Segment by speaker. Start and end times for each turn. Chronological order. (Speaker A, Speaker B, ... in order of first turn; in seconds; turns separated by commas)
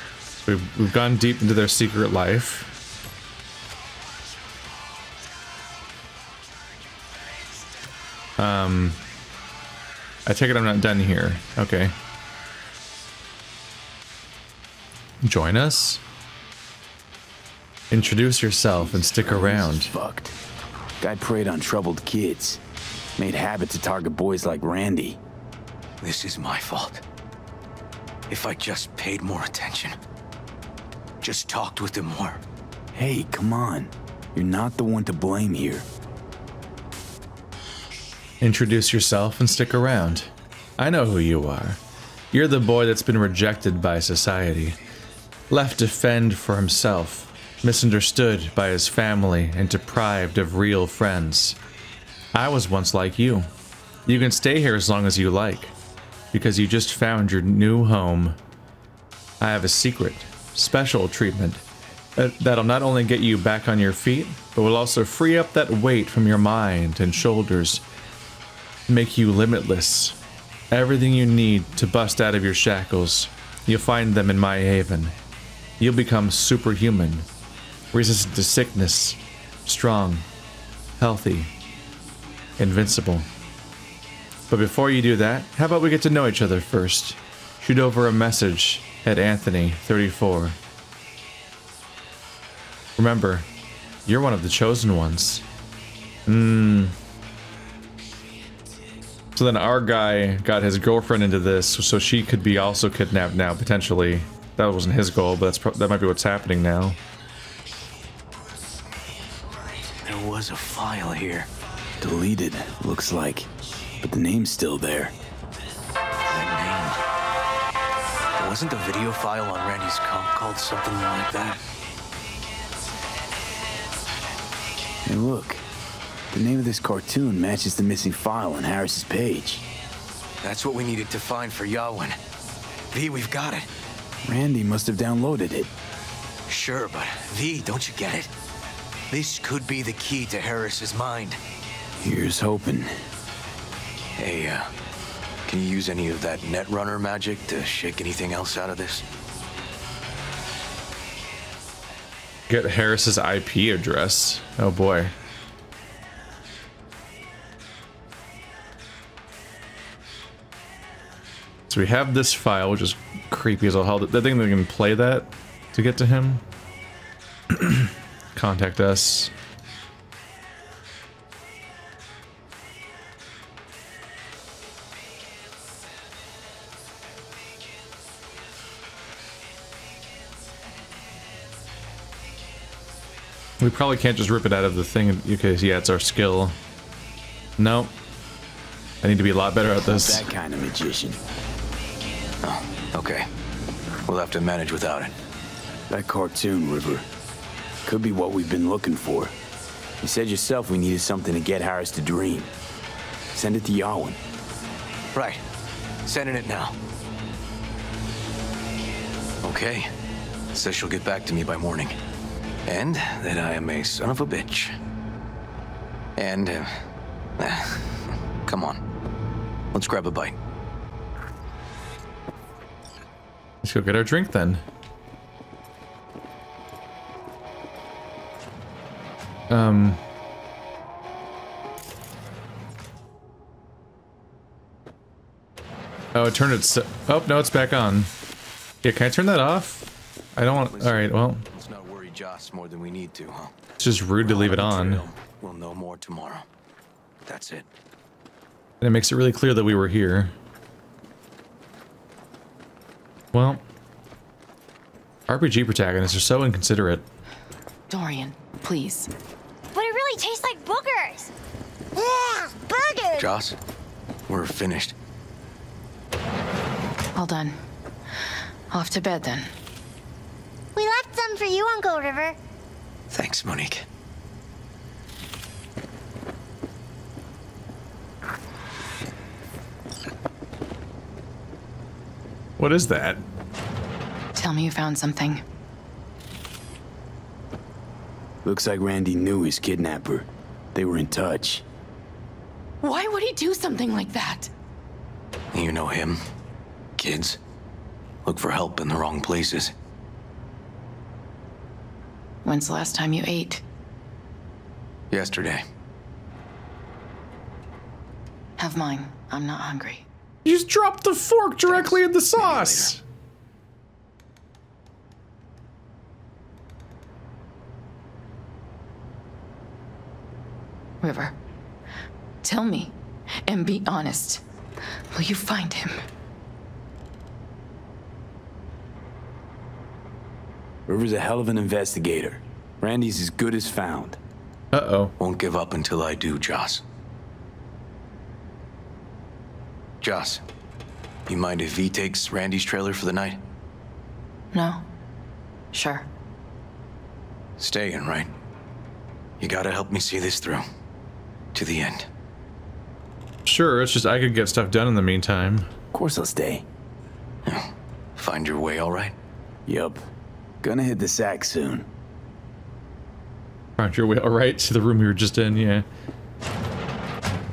Speaker A: 0.4-2.7, Speaker A: 8.4-9.0, Speaker A: 10.2-11.9, Speaker A: 15.2-16.0, Speaker A: 17.9-19.9, Speaker B: 18.8-20.4, Speaker B: 21.0-22.6, Speaker B: 23.2-25.2, Speaker C: 26.0-27.0, Speaker C: 28.3-29.9, Speaker C: 31.2-32.4, Speaker B: 32.9-35.9, Speaker A: 38.4-41.8, Speaker A: 42.3-44.8, Speaker A: 45.5-51.6, Speaker A: 52.3-53.5, Speaker A: 54.0-55.7, Speaker A: 56.3-58.4, Speaker A: 59.4-61.6, Speaker A: 62.1-67.8, Speaker A: 68.9-70.2, Speaker A: 70.7-75.1, Speaker A: 75.8-77.2, Speaker A: 77.9-80.2, Speaker A: 81.0-81.5, Speaker A: 82.6-83.3, Speaker A: 84.5-90.6, Speaker A: 93.0-93.5, Speaker A: 94.0-95.4, Speaker A: 96.3-97.0, Speaker A: 99.3-107.0, Speaker C: 110.0-111.5, Speaker B: 112.0-113.5, Speaker B: 114.0-115.1, Speaker C: 116.3-117.0, Speaker C: 118.4-121.6, Speaker B: 125.0-125.6, Speaker B: 126.3-129.7, Speaker C: 130.4-132.2, Speaker C: 132.9-133.7, Speaker B: 134.2-135.7, Speaker C: 136.5-138.3, Speaker C: 139.1-141.4, Speaker B: 142.0-142.9, Speaker C: 144.2-144.7, Speaker C: 145.4-149.0, Speaker A: 152.5-155.1, Speaker A: 161.7-166.4, Speaker A: 167.5-169.3, Speaker A: 183.6-186.6, Speaker A: 187.6-187.9, Speaker A: 189.0-190.2, Speaker B: 189.8-191.2, Speaker C: 192.4-193.3, Speaker C: 194.1-195.1, Speaker B: 195.9-197.1, Speaker B: 197.8-199.3, Speaker B: 200.0-202.5, Speaker B: 203.3-204.2, Speaker C: 205.1-205.4, Speaker C: 206.0-206.8, Speaker C: 209.4-209.9, Speaker C: 210.5-211.9, Speaker C: 212.7-214.8, Speaker C: 216.2-216.7, Speaker C: 217.4-218.8, Speaker C: 219.7-220.3, Speaker A: 223.6-224.6, Speaker A: 229.5-230.0, Speaker A: 236.1-238.1, Speaker A: 238.8-241.4, Speaker C: 240.7-243.5, Speaker A: 243.8-245.0, Speaker C: 244.2-246.5, Speaker C: 247.2-247.7, Speaker A: 248.8-250.3, Speaker A: 253.3-253.6, Speaker A: 255.3-257.0, Speaker D: 257.9-259.1, Speaker E: 259.7-261.3, Speaker E: 261.9-263.3, Speaker C: 263.1-263.6, Speaker C: 264.3-264.9, Speaker D: 267.1-267.6, Speaker D: 268.7-269.5, Speaker E: 270.7-272.4, Speaker C: 273.1-273.9, Speaker A: 282.6-283.2, Speaker D: 284.3-285.4, Speaker B: 288.4-291.6, Speaker D: 292.8-294.5, Speaker C: 295.5-296.2, Speaker C: 297.0-297.4, Speaker C: 298.2-299.7, Speaker D: 302.4-303.6, Speaker C: 305.1-305.6, Speaker D: 308.6-310.1, Speaker A: 310.4-313.0, Speaker C: 311.7-312.9, Speaker D: 321.0-321.3, Speaker D: 322.4-322.9, Speaker D: 323.4-324.4, Speaker D: 325.1-326.0, Speaker B: 330.9-334.2, Speaker A: 334.7-335.1, Speaker C: 335.2-336.8, Speaker C: 340.0-340.4, Speaker C: 341.3-343.4, Speaker D: 344.5-344.8, Speaker D: 345.7-346.1, Speaker C: 347.6-348.3, Speaker C: 349.4-350.6, Speaker C: 351.5-352.1, Speaker A: 353.4-355.7, Speaker B: 355.9-356.6, Speaker C: 357.4-359.1, Speaker B: 359.7-360.0, Speaker B: 360.6-361.9, Speaker A: 363.8-365.8